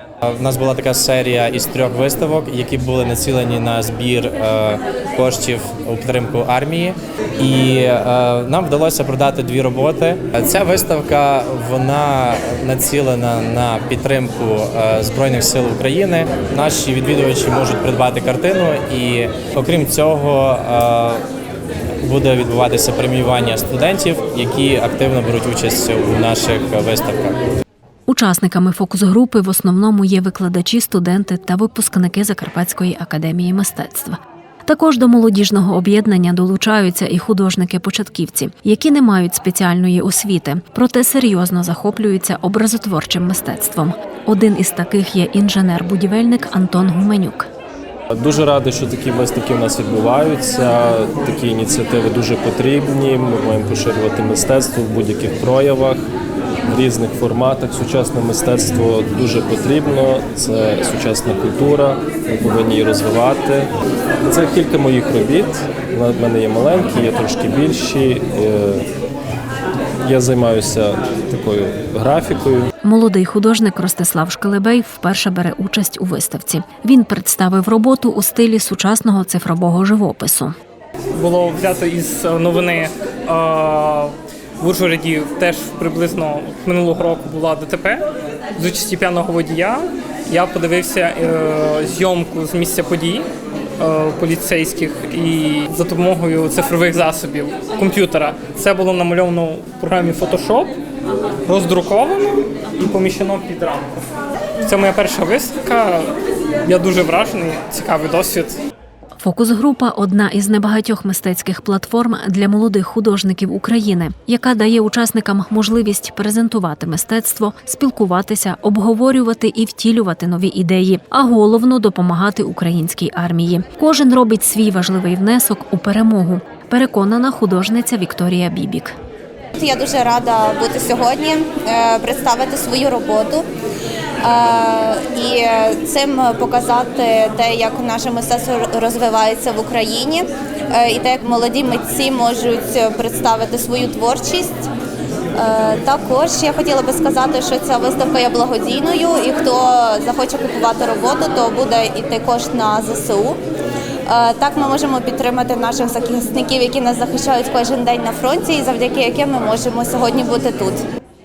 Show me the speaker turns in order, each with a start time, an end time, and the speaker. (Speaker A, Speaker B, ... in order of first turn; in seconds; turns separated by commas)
Speaker A: 0.2-21.2, Speaker A: 22.0-27.4, Speaker B: 28.1-47.5, Speaker C: 48.1-56.0, Speaker C: 56.7-63.7, Speaker C: 64.2-68.9, Speaker C: 70.0-72.7, Speaker B: 72.8-80.5, Speaker D: 81.2-88.0, Speaker D: 88.5-93.3, Speaker D: 93.8-100.7, Speaker D: 101.5-104.0, Speaker D: 104.6-106.1, Speaker D: 106.7-108.6, Speaker B: 109.2-128.9, Speaker E: 129.6-133.4, Speaker E: 134.2-144.7, Speaker E: 145.3-153.4, Speaker E: 154.1-160.8